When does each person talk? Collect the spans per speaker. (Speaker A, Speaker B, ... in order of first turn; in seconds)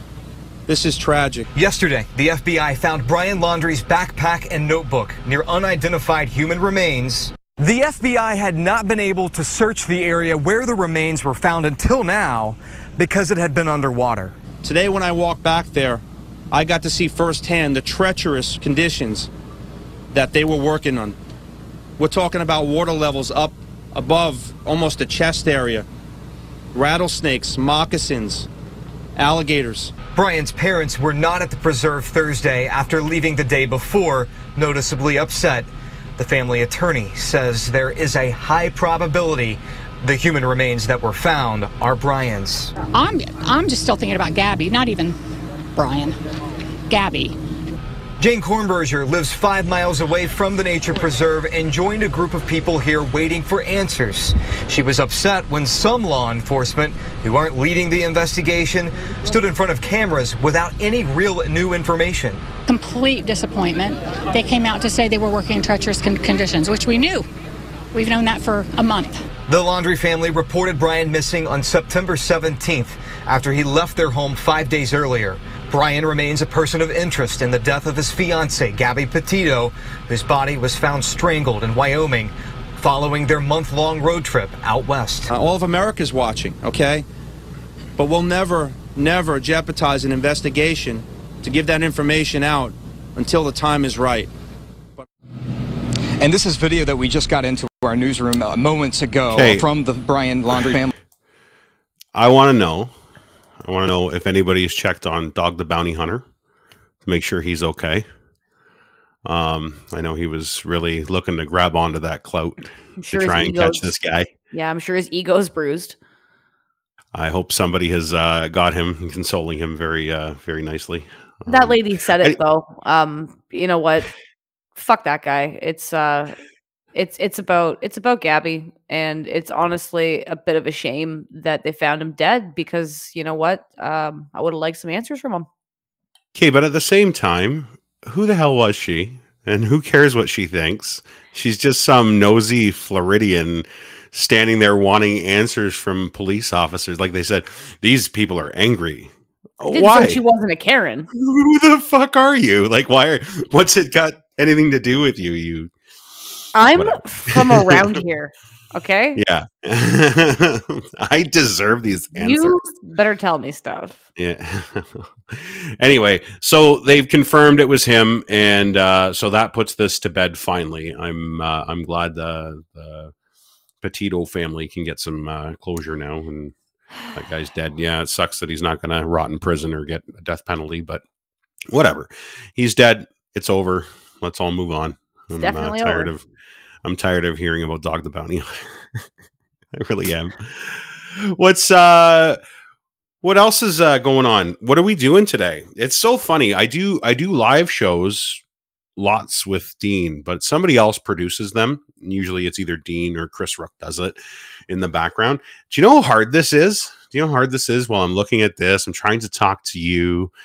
Speaker A: 0.7-1.5, 14.6-19.3, 20.1-21.1, 22.0-25.9, 26.7-28.5, 29.1-29.9, 85.3-87.0, 88.0-94.3
Speaker B: 1.5-14.3, 30.1-42.7, 48.2-62.4, 69.5-85.3, 96.2-100.9
Speaker C: 42.9-45.1, 45.8-46.2, 46.9-47.3, 62.7-67.2, 67.9-69.2
Speaker D: 99.3-99.7, 102.1-102.9, 103.6-106.2, 107.0-108.0, 109.2-114.3, 117.1-122.4, 136.3-150.2, 151.1-155.7, 156.7-158.0, 159.2-162.6, 164.2-173.1, 173.8-176.5, 177.1-181.0, 181.7-186.2, 186.8-189.0, 189.7-192.4, 193.2-198.4, 198.9-210.3
Speaker E: 113.0-113.9, 114.5-116.0, 121.5-124.1, 124.8-126.4, 126.9-135.5, 149.7-151.1, 156.5-159.2, 162.2-164.0, 185.4-186.1